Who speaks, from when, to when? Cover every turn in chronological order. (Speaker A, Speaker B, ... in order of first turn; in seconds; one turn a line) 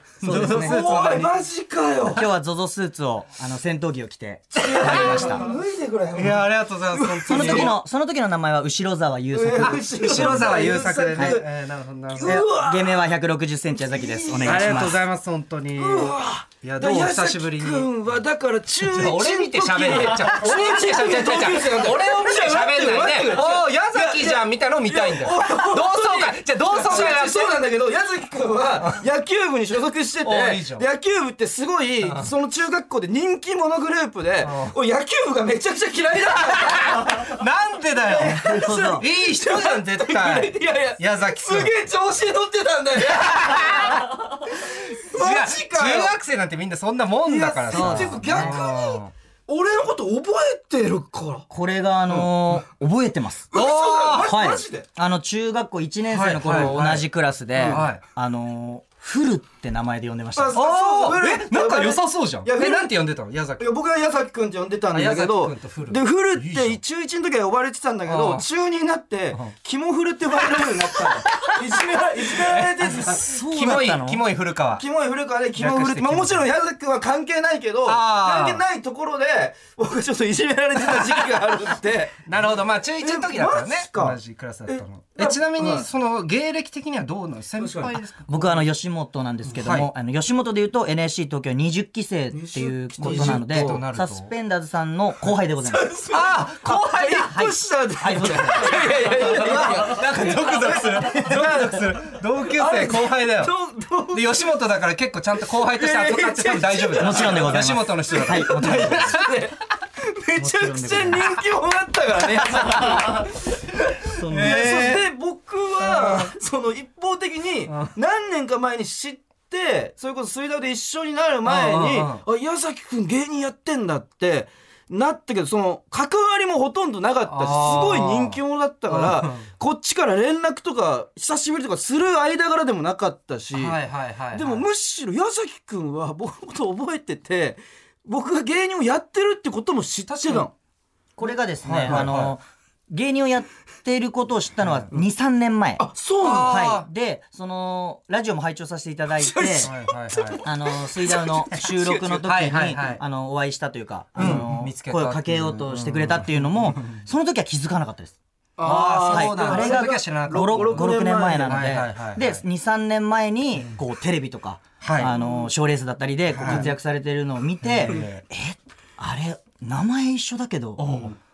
Speaker A: 0.2-2.3
Speaker B: 0.2-1.3
Speaker C: 0.2-1.0
Speaker C: 2.1-5.4
Speaker A: 4.6-7.8
Speaker B: 4.6-5.5
Speaker B: 6.2-7.8
Speaker C: 7.3-10.6
Speaker A: 9.3-11.5
Speaker B: 9.6-12.4
Speaker C: 11.1-11.4
Speaker A: 12.1-13.1
Speaker C: 12.2-15.0
Speaker A: 13.7-14.9
Speaker B: 14.4-17.9
Speaker A: 15.8-37.4
Speaker B: 18.8-27.6
Speaker B: 30.2-30.9
Speaker B: 32.0-32.3
Speaker B: 34.4-34.8
Speaker B: 36.5-41.7
Speaker A: 38.0-46.1
Speaker C: 38.4-39.1
Speaker B: 43.0-49.1
Speaker A: 47.2-51.5
Speaker C: 47.7-48.6
Speaker C: 51.5-53.5
Speaker A: 53.5-54.9
Speaker B: 53.5-54.3
Speaker C: 54.2-60.6
Speaker B: 56.1-57.1
Speaker A: 57.6-57.9
Speaker B: 57.6-58.0
Speaker A: 60.4-63.0
Speaker B: 60.5-63.7
Speaker A: 63.6-73.3
Speaker B: 64.9-66.8
Speaker B: 68.1-68.5
Speaker B: 71.2-71.6
Speaker B: 72.2-74.8
Speaker C: 72.8-74.2
Speaker A: 74.8-82.3
Speaker B: 75.6-76.5
Speaker B: 77.9-78.6
Speaker B: 80.9-81.2
Speaker B: 82.2-88.6
Speaker A: 83.0-85.9
Speaker A: 87.6-88.0
Speaker C: 88.3-95.9
Speaker B: 89.5-89.9
Speaker A: 92.3-93.8
Speaker B: 93.0-94.3
Speaker A: 95.6-104.5
Speaker B: 96.1-97.3
Speaker C: 97.0-98.8
Speaker B: 98.5-103.5
Speaker B: 104.1-109.3
Speaker A: 105.5-133.8
Speaker C: 107.0-109.3
Speaker C: 110.4-111.4
Speaker B: 112.5-113.2
Speaker C: 114.1-114.9
Speaker B: 114.3-115.1
Speaker B: 115.8-116.3
Speaker B: 121.4-122.2
Speaker B: 127.3-129.5
Speaker B: 133.5-134.7
Speaker A: 134.3-140.5
Speaker B: 140.1-140.4
Speaker C: 141.2-149.7
Speaker B: 141.6-142.3
Speaker A: 141.9-142.1
Speaker A: 145.8-146.6
Speaker B: 146.2-146.9
Speaker A: 149.2-152.2
Speaker B: 149.6-150.4
Speaker C: 150.4-158.2
Speaker B: 152.2-153.0
Speaker B: 154.2-157.0
Speaker A: 154.2-154.5
Speaker A: 158.6-161.7
Speaker B: 158.6-160.9
Speaker C: 159.0-171.0
Speaker B: 161.5-162.4
Speaker B: 164.8-165.1
Speaker A: 165.0-165.5
Speaker B: 166.3-166.7
Speaker A: 166.4-166.8
Speaker B: 167.6-168.2
Speaker B: 170.8-171.1